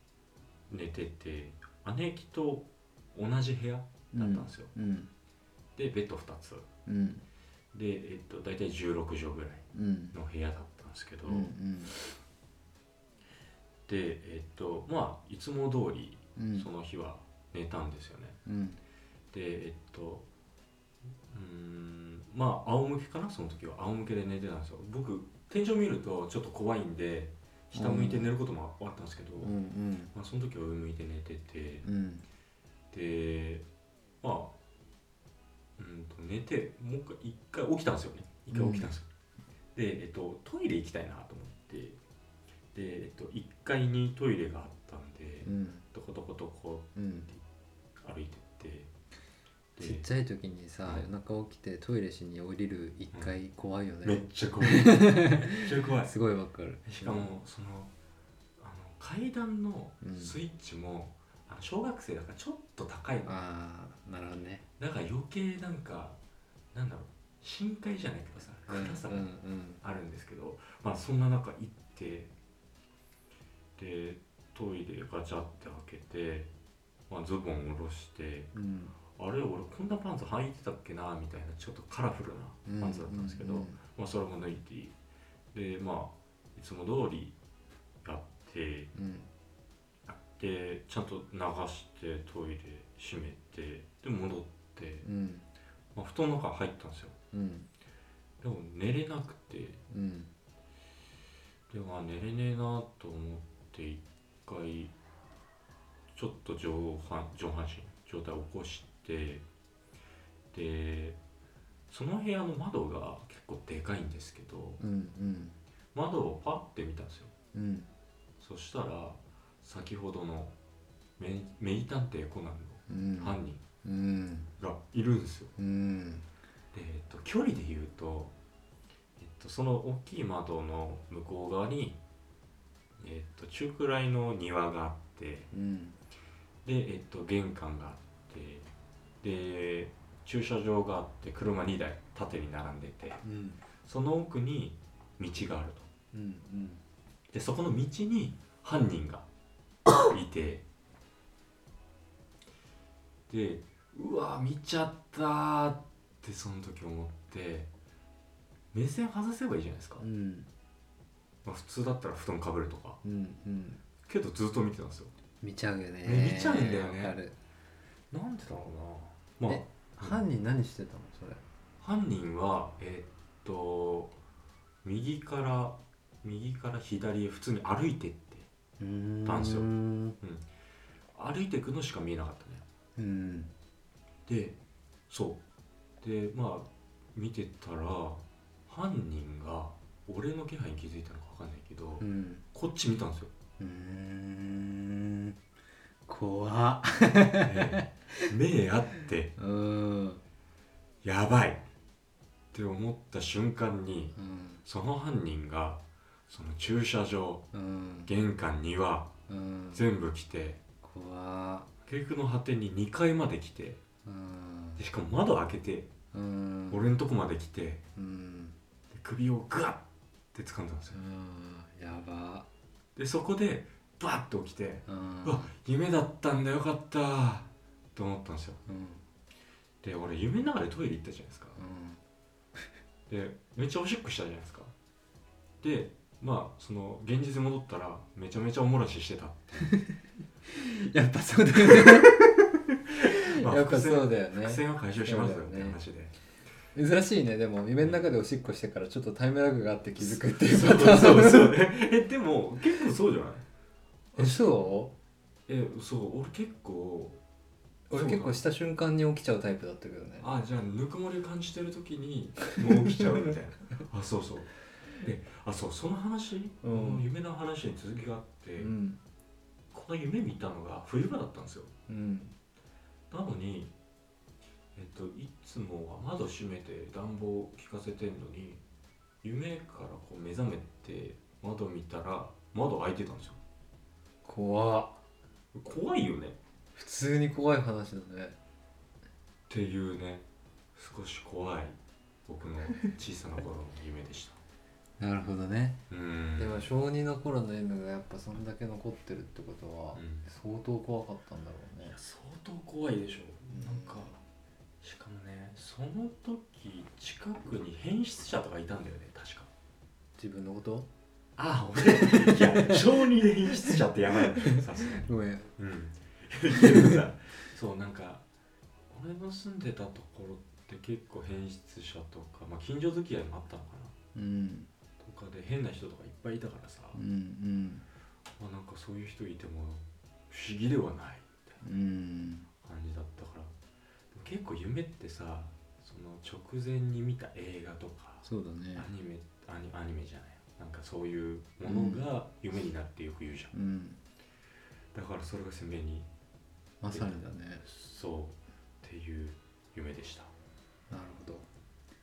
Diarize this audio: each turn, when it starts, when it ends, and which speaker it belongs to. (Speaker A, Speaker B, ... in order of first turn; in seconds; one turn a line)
Speaker A: 0.7-4.7
Speaker B: 4.1-5.1
Speaker A: 5.8-6.7
Speaker B: 6.9-7.2
Speaker A: 7.7-12.0
Speaker B: 9.7-10.2
Speaker B: 11.3-11.9
Speaker A: 13.9-18.4
Speaker B: 16.4-16.7
Speaker B: 18.5-18.8
Speaker A: 19.3-20.3
Speaker A: 21.3-29.5
Speaker B: 27.7-28.3
Speaker B: 29.4-30.1
Speaker A: 30.1-31.9
Speaker B: 31.8-32.2
Speaker A: 32.9-33.7
Speaker A: 34.2-34.5
Speaker A: 35.8-39.1
Speaker B: 38.5-38.9
Speaker A: 39.8-42.0
Speaker A: 42.7-47.4
Speaker B: 45.4-45.9
Speaker B: 47.0-47.3
Speaker A: 48.0-48.9
Speaker A: 49.8-50.0
Speaker B: 49.8-57.4
Speaker A: 54.0-56.1
Speaker A: 56.9-57.9
Speaker A: 58.6-63.4
Speaker B: 60.0-60.4
Speaker B: 63.2-64.6
Speaker A: 64.8-66.2
Speaker A: 66.7-69.3
Speaker B: 68.7-69.8
Speaker A: 69.8-72.3
Speaker A: 73.8-76.5
Speaker A: 77.1-78.5
Speaker B: 78.5-79.0
Speaker A: 79.2-85.0
Speaker B: 82.7-83.8
Speaker A: 85.5-87.3
Speaker A: 88.0-88.9
Speaker B: 89.0-89.3
Speaker A: 90.1-95.1
Speaker B: 95.0-95.5
Speaker A: 96.0-97.2
Speaker B: 97.3-97.7
Speaker A: 98.4-99.8
Speaker B: 99.9-100.3
Speaker A: 101.7-104.9
Speaker A: 106.1-109.4
Speaker A: 110.5-111.2
Speaker A: 111.9-114.8
Speaker B: 114.8-115.6
Speaker A: 115.9-117.3
Speaker B: 117.5-117.9
Speaker A: 118.4-120.5
Speaker A: 121.2-123.6
Speaker B: 122.9-124.5
Speaker A: 124.6-125.5
Speaker B: 125.6-126.3
Speaker A: 126.7-128.3
Speaker A: 129.2-132.0
Speaker A: 133.0-135.5
Speaker B: 135.5-136.0
Speaker A: 136.6-138.7
Speaker A: 139.2-143.2
Speaker B: 143.2-143.6
Speaker A: 143.8-145.9
Speaker B: 146.1-146.8
Speaker A: 147.3-149.3
Speaker A: 150.0-150.7
Speaker A: 153.3-157.7
Speaker A: 158.7-160.0
Speaker B: 160.0-160.5
Speaker A: 161.4-163.0
Speaker B: 163.0-163.8
Speaker A: 164.1-165.1
Speaker B: 165.4-167.4
Speaker A: 166.0-167.2
Speaker A: 168.1-170.2
Speaker B: 169.5-171.4
Speaker A: 171.8-174.1
Speaker A: 174.8-178.5
Speaker B: 178.8-180.2
Speaker A: 179.2-179.7
Speaker A: 181.2-182.7
Speaker B: 183.0-183.5
Speaker A: 184.3-184.6
Speaker A: 185.1-185.4
Speaker A: 186.0-193.3
Speaker B: 192.0-192.4
Speaker B: 193.6-195.4
Speaker B: 196.1-198.3
Speaker A: 197.4-199.3
Speaker B: 199.4-200.2
Speaker A: 201.0-201.6
Speaker A: 202.5-207.4
Speaker B: 204.2-204.6
Speaker B: 207.5-208.1
Speaker A: 208.1-209.1
Speaker B: 209.3-209.9
Speaker A: 209.7-210.6
Speaker B: 210.8-211.7
Speaker A: 211.9-213.8
Speaker B: 214.1-214.8
Speaker A: 214.8-215.9
Speaker B: 216.1-216.8
Speaker A: 216.7-217.8
Speaker B: 218.0-218.6
Speaker A: 218.9-221.0
Speaker B: 220.9-222.5
Speaker A: 223.0-228.6
Speaker B: 224.9-225.5
Speaker B: 228.7-229.1
Speaker A: 229.8-231.6
Speaker B: 231.6-232.0
Speaker A: 233.1-234.7
Speaker A: 235.6-239.7
Speaker B: 239.6-242.2
Speaker A: 241.7-242.3
Speaker B: 242.9-245.8
Speaker A: 243.0-246.2
Speaker B: 246.7-251.7
Speaker A: 250.0-253.4
Speaker A: 254.2-254.5
Speaker B: 254.2-254.9
Speaker A: 255.5-257.2
Speaker B: 257.9-260.3
Speaker A: 257.9-258.4
Speaker A: 260.2-268.7
Speaker B: 266.6-267.1
Speaker B: 268.6-269.0
Speaker A: 269.7-271.7
Speaker B: 271.9-272.3
Speaker A: 273.1-273.7
Speaker A: 274.8-278.6
Speaker A: 279.2-283.4
Speaker B: 284.2-285.0
Speaker A: 285.5-286.4
Speaker B: 286.7-288.4
Speaker A: 289.5-294.4
Speaker B: 295.0-295.8
Speaker A: 295.9-296.7
Speaker B: 296.4-302.0
Speaker A: 299.9-300.3
Speaker A: 301.8-304.2
Speaker B: 303.5-304.2
Speaker A: 304.8-309.5
Speaker B: 310.2-310.9
Speaker A: 311.4-318.2
Speaker B: 311.8-312.8
Speaker B: 313.6-315.5
Speaker A: 318.9-323.9
Speaker B: 324.1-324.7
Speaker A: 325.0-327.0
Speaker B: 326.9-327.8
Speaker A: 328.4-331.6
Speaker B: 331.6-332.5
Speaker A: 332.6-333.5
Speaker A: 334.1-343.5
Speaker B: 338.2-338.9
Speaker B: 341.6-342.0
Speaker B: 343.5-344.0
Speaker A: 344.9-346.1
Speaker B: 346.8-347.6
Speaker A: 346.9-350.3
Speaker B: 350.9-351.5